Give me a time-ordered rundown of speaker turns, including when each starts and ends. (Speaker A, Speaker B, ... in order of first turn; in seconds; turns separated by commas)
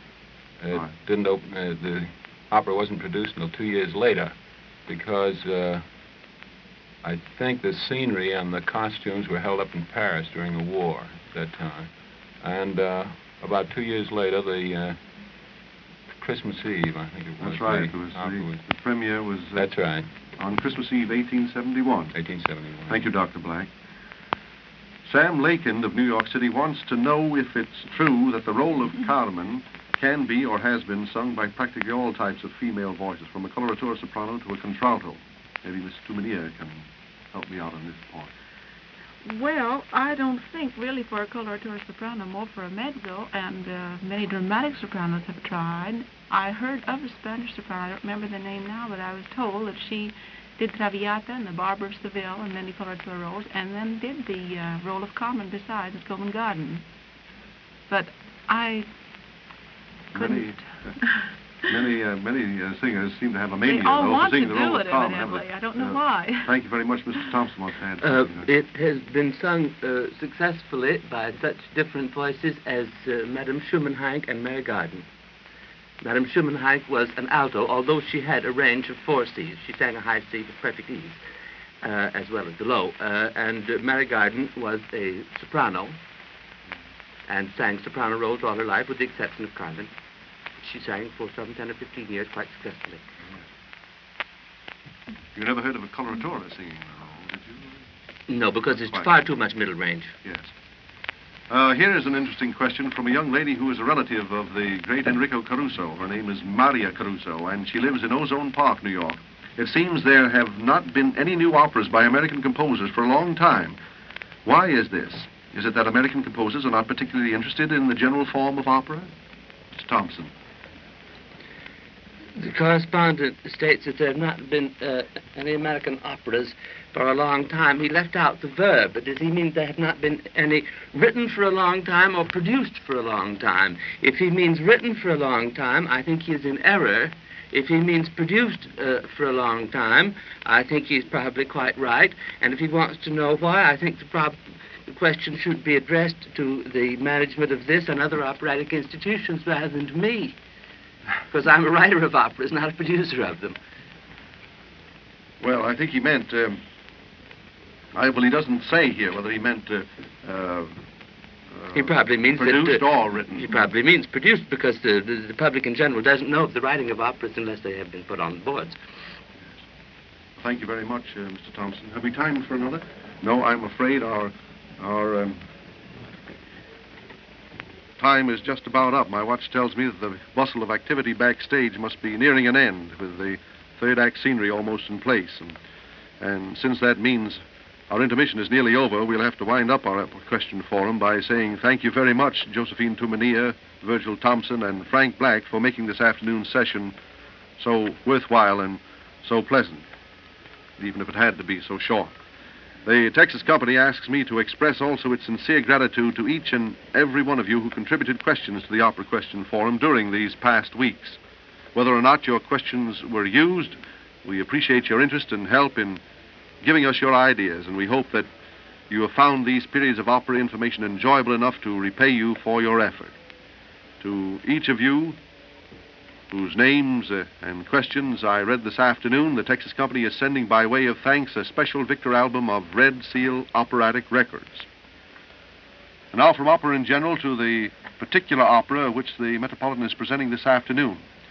Speaker A: 0.6-4.3, Speaker A: 4.9-5.8, Speaker A: 7.0-11.9, Speaker A: 12.4-15.0, Speaker A: 16.2-18.6, Speaker B: 17.4-19.6, Speaker A: 19.5-20.1, Speaker B: 20.4-22.1, Speaker A: 22.1-22.9, Speaker B: 22.9-23.7, Speaker B: 25.0-38.3, Speaker C: 39.2-56.8, Speaker C: 57.9-58.9, Speaker B: 60.1-60.9, Speaker C: 60.1-60.6, Speaker B: 61.6-68.5, Speaker C: 63.6-66.5, Speaker D: 68.0-75.0, Speaker D: 76.0-81.2, Speaker D: 81.8-86.0, Speaker D: 87.3-89.9, Speaker D: 90.6-93.0, Speaker B: 95.3-97.8, Speaker D: 98.3-100.1, Speaker B: 98.8-99.1, Speaker B: 100.2-100.5, Speaker B: 101.5-113.8, Speaker B: 114.4-119.1, Speaker B: 119.7-120.3, Speaker D: 122.3-150.3, Speaker D: 151.3-153.6, Speaker B: 155.4-156.6, Speaker B: 157.9-160.8, Speaker B: 161.5-163.6, Speaker D: 161.7-168.8, Speaker B: 170.4-175.4, Speaker B: 178.0-185.6, Speaker B: 186.2-196.9, Speaker B: 197.6-199.8, Speaker B: 200.8-202.1, Speaker B: 202.8-211.2, Speaker B: 211.7-216.0, Speaker B: 216.6-218.3, Speaker B: 218.9-223.1, Speaker B: 224.0-225.2, Speaker B: 226.3-234.7, Speaker B: 236.1-241.0